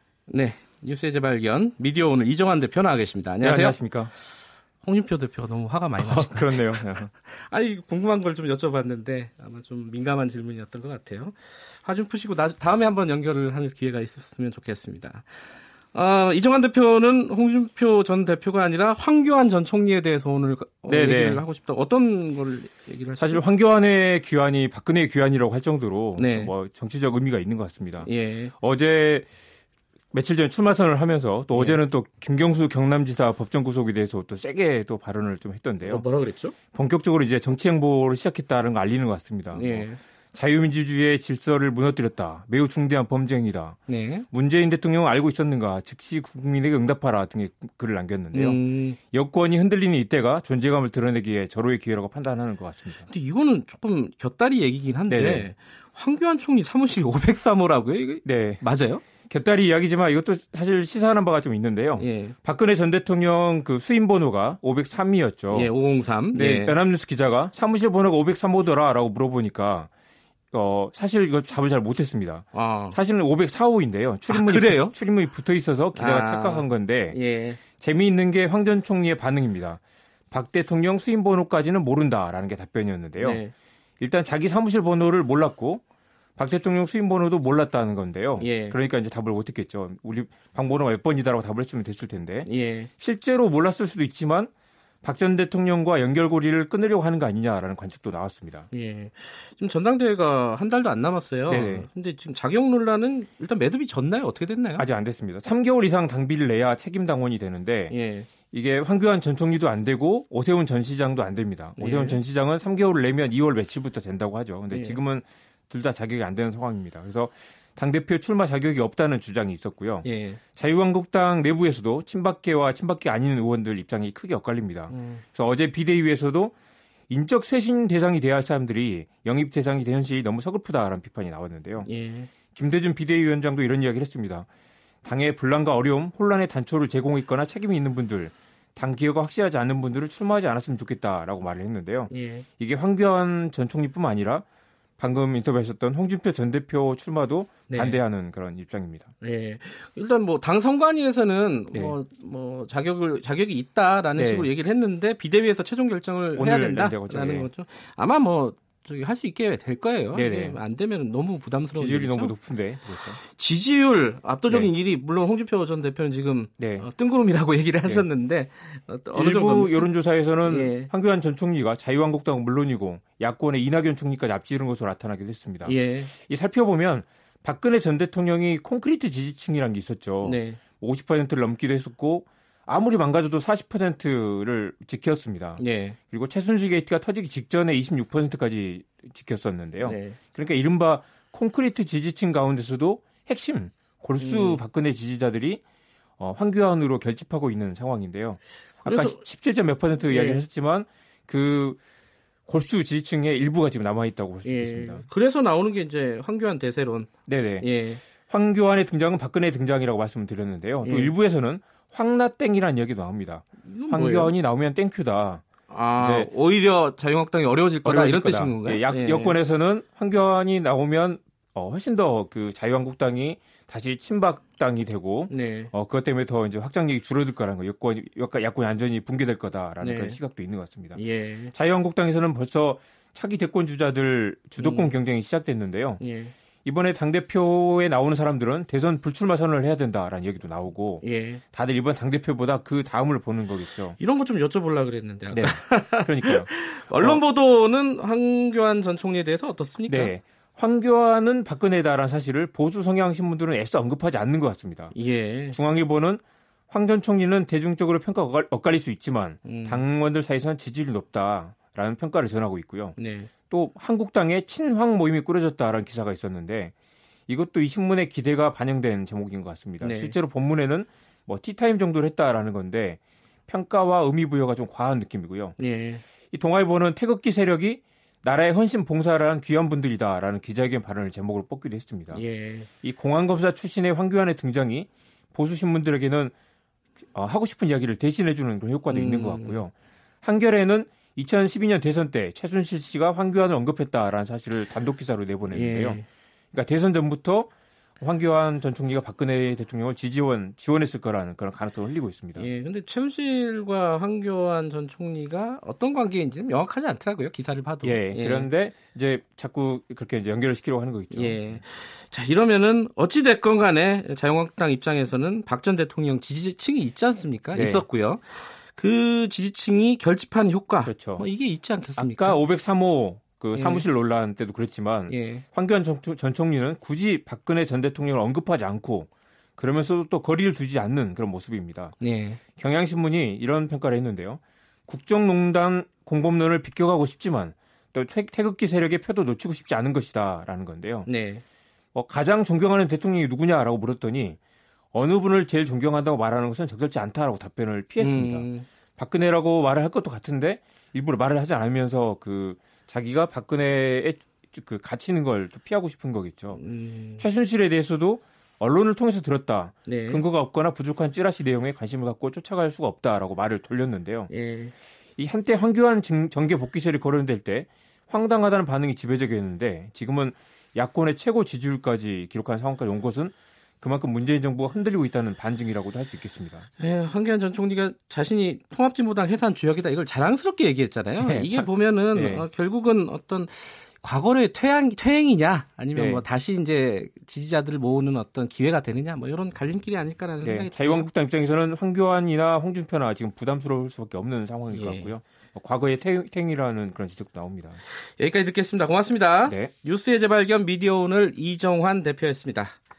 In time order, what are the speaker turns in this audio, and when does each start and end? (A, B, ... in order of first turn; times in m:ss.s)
0:00.3-0:03.8 A
0:03.4-0:04.1 B
0:04.8-0:15.3 A
0:06.0-0:07.1 B
0:15.9-0:23.4 A
0:20.9-0:21.4 B
0:23.2-0:29.3 B
0:26.2-0:26.5 A
0:28.0-0:28.5 A
0:30.1-0:36.0 B
0:31.5-0:31.8 A
0:35.8-0:36.6 A
0:36.7-0:43.8 B
0:39.5-0:40.0 A
0:43.9-0:44.3 A
0:44.3-0:48.6 B
0:48.3-0:49.0 A
0:49.1-0:53.1 B
0:53.1-0:59.0 A
0:55.1-0:55.5 B
0:58.2-0:58.6 B
0:59.2-1:05.7 B
1:02.0-1:02.4 A
1:05.5-1:06.8 A
1:06.3-1:09.9 B
1:10.5-1:17.2 B
1:12.5-1:13.0 A
1:14.3-1:14.9 A
1:16.0-1:17.6 A
1:17.7-1:19.8 B
1:20.3-1:23.4 B
1:23.2-1:23.5 A
1:24.0-1:25.8 B
1:26.4-1:34.5 B
1:28.4-1:28.8 A
1:32.4-1:32.9 A
1:35.0-1:38.7 B
1:38.7-1:44.9 A
1:41.5-1:41.9 B
1:44.8-1:48.0 B
1:47.9-1:48.3 A
1:48.5-2:06.5 B
1:51.8-1:52.2 A
1:54.7-1:55.0 A
2:00.0-2:00.4 A
2:04.9-2:05.2 A
2:07.1-2:11.9 B
2:11.8-2:12.3 A
2:12.5-2:14.5 B
2:15.0-2:24.4 B
2:22.1-2:22.5 A
2:25.0-2:29.1 B
2:27.7-2:28.0 A
2:29.2-2:42.4 A
2:34.2-2:34.5 B
2:36.4-2:37.5 B
2:40.1-2:40.6 B
2:41.7-2:43.2 B
2:43.1-2:49.9 A
2:46.6-2:46.9 B
2:49.2-3:15.6 B
2:50.4-2:50.9 A
2:55.6-2:56.1 A
3:00.2-3:00.6 A
3:05.6-3:06.0 A
3:09.8-3:10.2 A
3:14.2-3:14.6 A
3:16.2-3:21.8 B
3:18.8-3:19.2 A
3:20.1-3:20.4 A
3:22.5-3:25.0 B
3:24.4-3:27.1 A
3:27.3-3:35.4 B
3:27.6-3:28.0 A
3:30.8-3:31.1 A
3:33.6-3:34.3 A
3:35.7-3:39.4 A
3:36.0-3:36.3 B
3:37.8-3:51.0 B
3:45.3-3:45.7 A
3:49.8-3:50.2 A
3:51.0-3:51.5 A
3:51.5-3:56.0 B
3:54.6-3:55.0 A
3:56.0-3:56.3 A
3:56.6-4:04.0 B
4:01.0-4:01.4 A
4:03.9-4:10.1 A
4:05.3-4:07.2 B
4:09.9-4:14.9 B
4:14.9-4:15.6 A
4:15.5-4:23.0 B
4:19.4-4:19.8 A
4:23.0-4:23.3 A
4:23.5-4:26.7 B
4:27.3-4:35.6 B
4:29.8-4:30.2 A
4:35.6-4:36.0 A
4:36.3-4:42.2 B
4:42.1-4:42.7 A
4:42.8-4:46.3 B
4:47.1-4:56.0 B
4:48.9-4:49.6 A
4:55.5-4:56.0 A
4:56.5-5:02.5 B
5:02.4-5:08.5 A
5:07.8-5:11.6 B
5:11.1-5:22.4 A
5:17.6-5:17.8 B
5:20.8-5:21.3 B
5:22.0-5:32.0 B
5:23.6-5:23.8 A
5:25.1-5:25.4 A
5:32.0-5:32.4 A
5:32.6-5:41.1 B
5:41.1-5:41.4 A
5:41.9-5:44.4 B
5:44.9-5:56.6 B
5:48.0-5:48.7 A
5:56.5-5:57.3 A
5:57.2-6:04.3 B
5:59.9-6:00.2 A
6:04.3-6:04.7 A
6:05.2-6:16.7 B
6:16.8-6:31.1 A
6:21.2-6:22.5 B
6:26.0-6:26.2 B
6:30.4-6:37.8 B
6:34.7-6:35.1 A
6:38.0-6:42.8 A